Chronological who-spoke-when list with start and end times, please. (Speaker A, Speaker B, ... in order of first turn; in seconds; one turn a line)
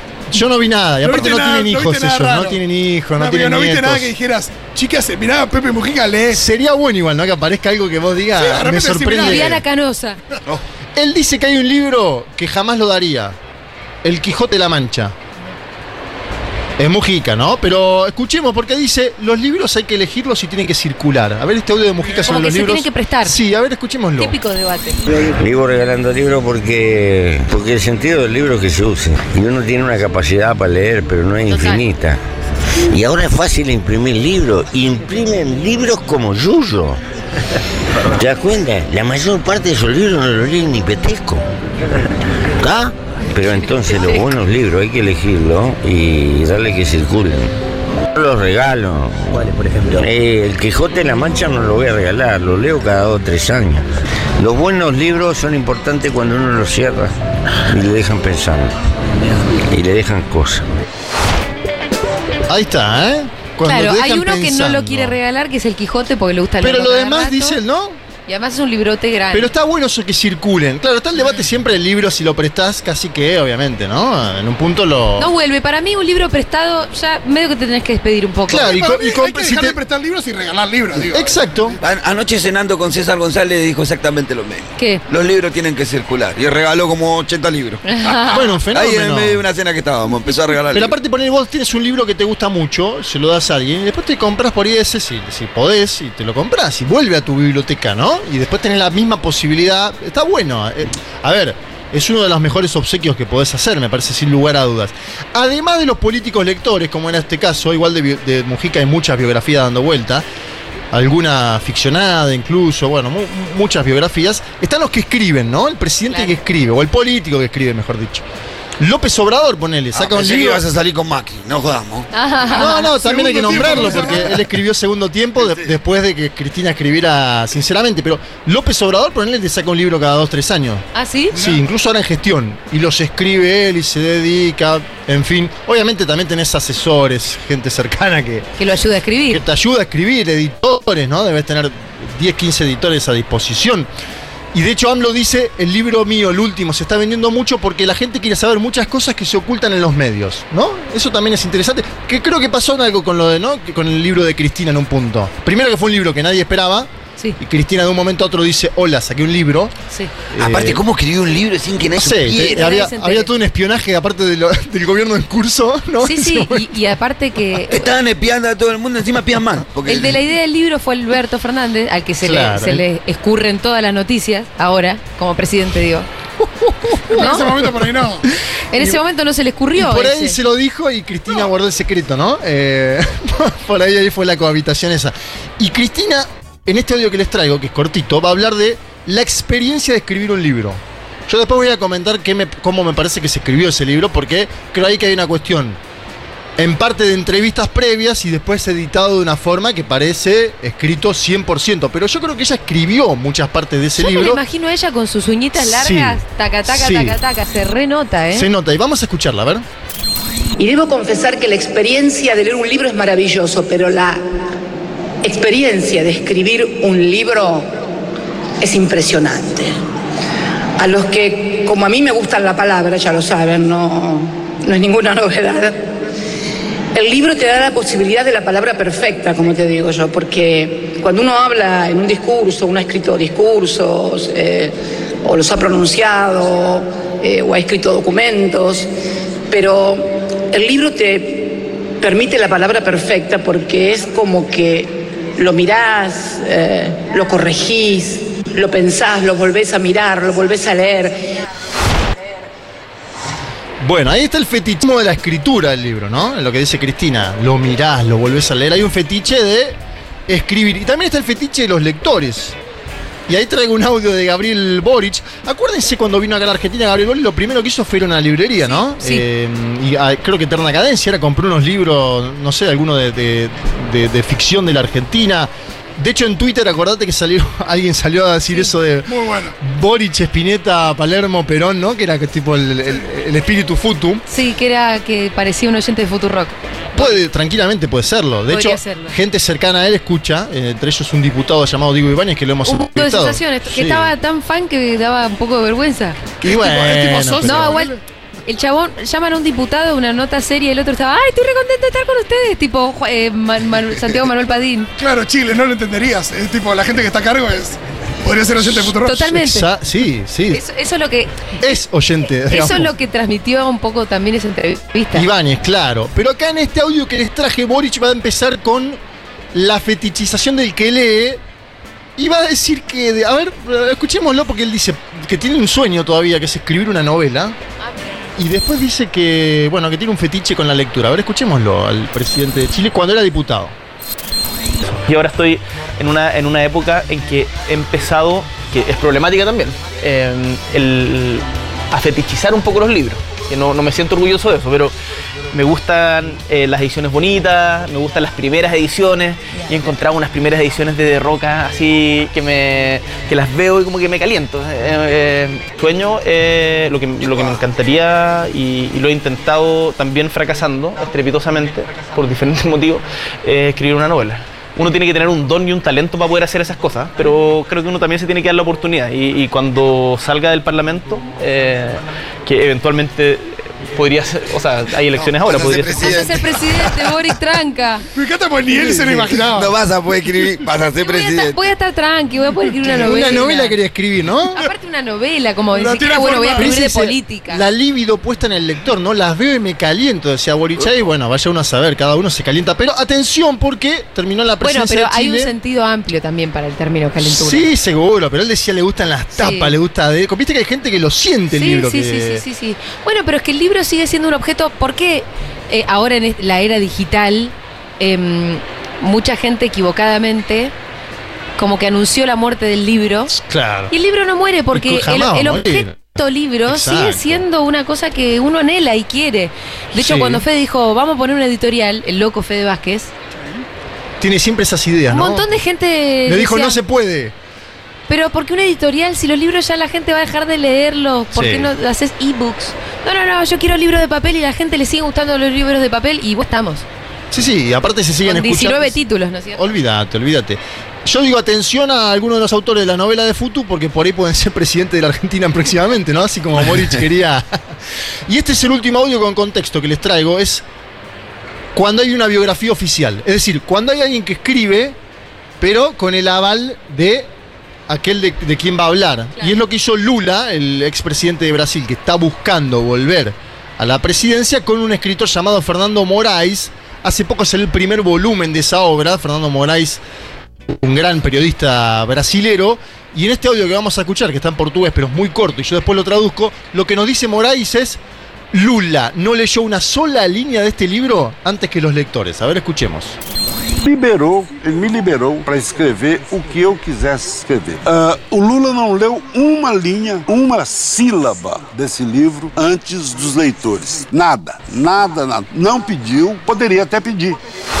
Speaker A: 0.3-4.1
Speaker B: 1.0-2.6
Speaker B: 3.1-6.4
Speaker A: 6.3-9.6
Speaker B: 8.3-9.6
Speaker C: 9.2-10.2
Speaker A: 10.9-13.4
Speaker A: 14.0-15.1
Speaker A: 16.8-24.4
Speaker C: 22.2-23.3
Speaker C: 24.2-25.0
Speaker D: 25.1-32.2
Speaker C: 31.5-31.8
Speaker D: 32.8-37.0
Speaker D: 38.0-41.4
Speaker D: 42.6-47.5
Speaker D: 48.1-53.8
Speaker D: 54.4-58.7
Speaker D: 59.7-60.6
Speaker A: 62.5-65.2
Speaker C: 63.7-67.6
Speaker A: 66.6-68.0
Speaker C: 68.3-69.5
Speaker A: 69.3-75.3
Speaker C: 75.2-78.8
Speaker A: 78.5-79.8
Speaker B: 78.6-81.4
Speaker A: 81.1-81.8
Speaker E: 81.8-87.8
Speaker C: 84.8-85.0
Speaker C: 87.8-88.5
Speaker B: 88.0-88.4
Speaker A: 88.3-89.4
Speaker E: 88.7-90.9
Speaker A: 90.7-110.2
Speaker A: 110.9-118.2
Speaker C: 116.1-116.3
Speaker A: 118.8-120.6
Speaker E: 119.9-122.1
Speaker C: 122.1-122.9
Speaker A: 122.5-138.5
Speaker B: 122.8-124.3
Speaker C: 123.5-123.8
Speaker C: 130.9-131.4
Speaker C: 138.6-139.4
Speaker A: 139.3-143.9
Speaker A: 144.5-159.7
Speaker A: 160.3-160.8
Speaker E: 160.3-162.7
Speaker A: 162.0-166.9
Speaker C: 162.3-163.3
Speaker C: 166.0-167.9
Speaker E: 167.7-170.2
Speaker C: 169.8-176.1
Speaker A: 172.2-172.8
Speaker A: 176.4-177.5
Speaker B: 177.1-178.2
Speaker C: 177.1-177.5
Speaker C: 178.7-180.4
Speaker A: 178.7-179.0
Speaker A: 179.8-195.8
Speaker A: 196.6-204.4
Speaker C: 203.9-208.5
Speaker A: 205.6-207.2
Speaker A: 208.3-209.7
Speaker F: 210.6-214.3
Speaker F: 215.2-217.7
Speaker F: 218.6-219.7
Speaker F: 220.8-225.9
Speaker F: 226.9-238.9
Speaker F: 239.5-251.4
Speaker A: 253.8-262.6
Speaker A: 263.3-284.2
Speaker C: 268.7-269.2
Speaker B: 279.1-279.6
Speaker C: 284.3-287.1
Speaker A: 286.9-294.1
Speaker C: 288.5-289.1
Speaker C: 292.6-296.2
Speaker A: 296.4-297.8
Speaker B: 296.4-298.0
Speaker C: 297.4-304.9
Speaker B: 305.0-309.2
Speaker C: 308.9-309.7
Speaker A: 309.1-310.6
Speaker C: 310.5-311.6
Speaker A: 311.6-312.9
Speaker C: 312.5-315.3
Speaker A: 315.1-319.0
Speaker A: 319.5-321.4
Speaker A: 322.2-327.6
Speaker A: 328.4-333.7
Speaker G: 335.1-344.9
Speaker G: 345.5-376.3
Speaker E: 375.1-376.8
Speaker C: 376.0-378.0
Speaker B: 378.1-379.7
Speaker E: 378.7-381.6
Speaker C: 381.0-383.8
Speaker A: 382.9-384.7
Speaker C: 384.5-387.6
Speaker B: 385.7-386.8
Speaker A: 386.5-395.5
Speaker C: 394.6-397.7
Speaker A: 397.2-402.4
Speaker C: 399.3-399.7
Speaker C: 401.5-410.7
Speaker C: 411.6-413.3
Speaker A: 413.3-413.9
Speaker C: 413.9-423.1
Speaker A: 414.7-416.1
Speaker A: 416.6-417.4
Speaker A: 419.9-420.4
Speaker A: 424.2-425.5
Speaker C: 425.1-426.8
Speaker A: 426.2-427.3
Speaker C: 428.1-436.9
Speaker A: 431.3-431.7
Speaker A: 437.3-439.0
Speaker C: 438.2-439.7
Speaker A: 439.5-447.6
Speaker A: 448.3-450.6
Speaker A: 451.7-455.0
Speaker A: 455.6-457.3
Speaker A: 457.9-470.0
Speaker A: 470.7-478.0
Speaker A: 478.5-483.2
Speaker H: 483.8-497.4